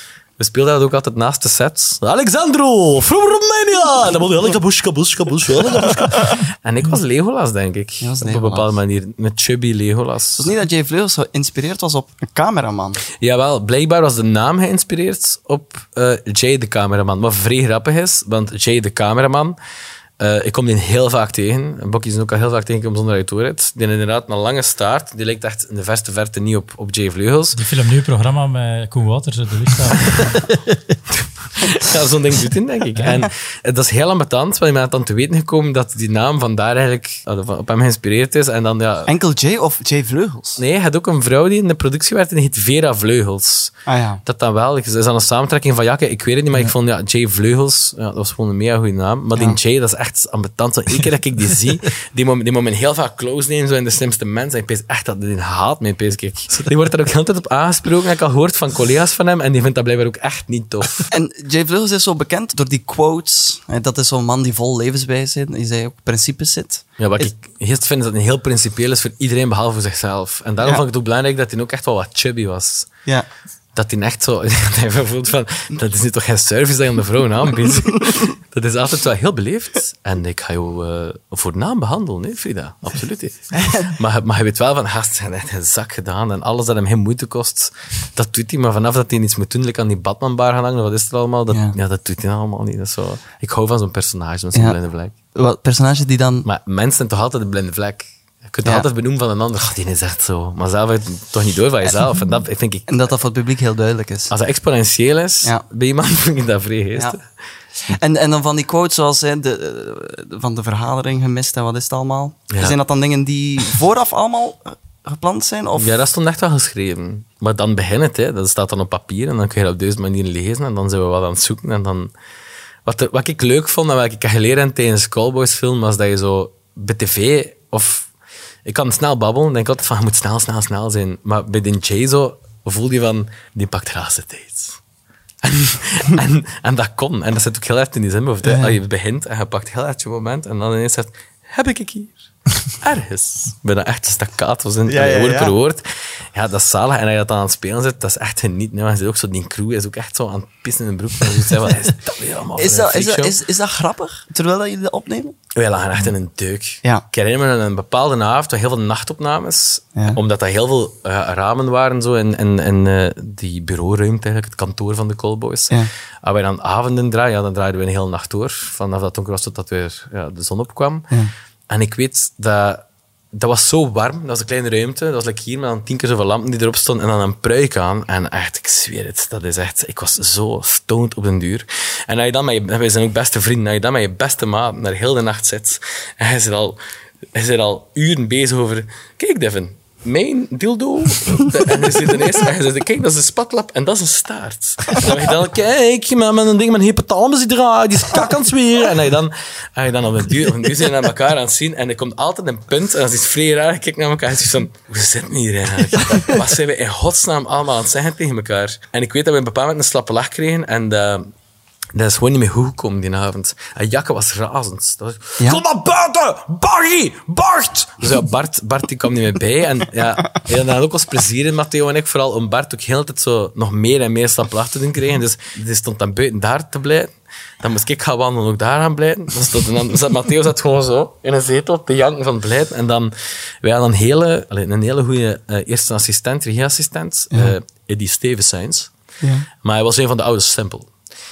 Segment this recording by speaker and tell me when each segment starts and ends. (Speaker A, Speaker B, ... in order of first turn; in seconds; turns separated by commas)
Speaker A: 0.4-10.5, Speaker B: 8.0-8.8, Speaker B: 10.4-13.0, Speaker A: 13.2-19.6, Speaker A: 20.2-27.6, Speaker C: 27.5-30.4, Speaker A: 31.1-39.1, Speaker C: 33.0-33.2, Speaker B: 39.1-40.6, Speaker A: 40.6-61.1, Speaker B: 43.9-44.2, Speaker B: 61.1-67.3, Speaker A: 67.0-72.9, Speaker A: 73.7-95.1, Speaker B: 83.5-83.9, Speaker B: 91.5-91.8, Speaker B: 95.3-96.5, Speaker A: 96.4-102.9, Speaker B: 102.9-104.3, Speaker A: 104.3-107.2, Speaker B: 107.8-115.9, Speaker A: 115.8-122.1, Speaker A: 122.8-128.1, Speaker A: 128.7-134.8, Speaker A: 135.4-142.2, Speaker B: 138.4-138.8, Speaker A: 142.7-145.8, Speaker B: 144.9-145.5, Speaker A: 146.3-153.3, Speaker B: 152.6-155.3, Speaker A: 155.5-171.1, Speaker A: 171.7-186.8, Speaker A: 187.3-211.3, Speaker A: 211.9-238.9, Speaker B: 239.2-239.5, Speaker A: 239.6-240.9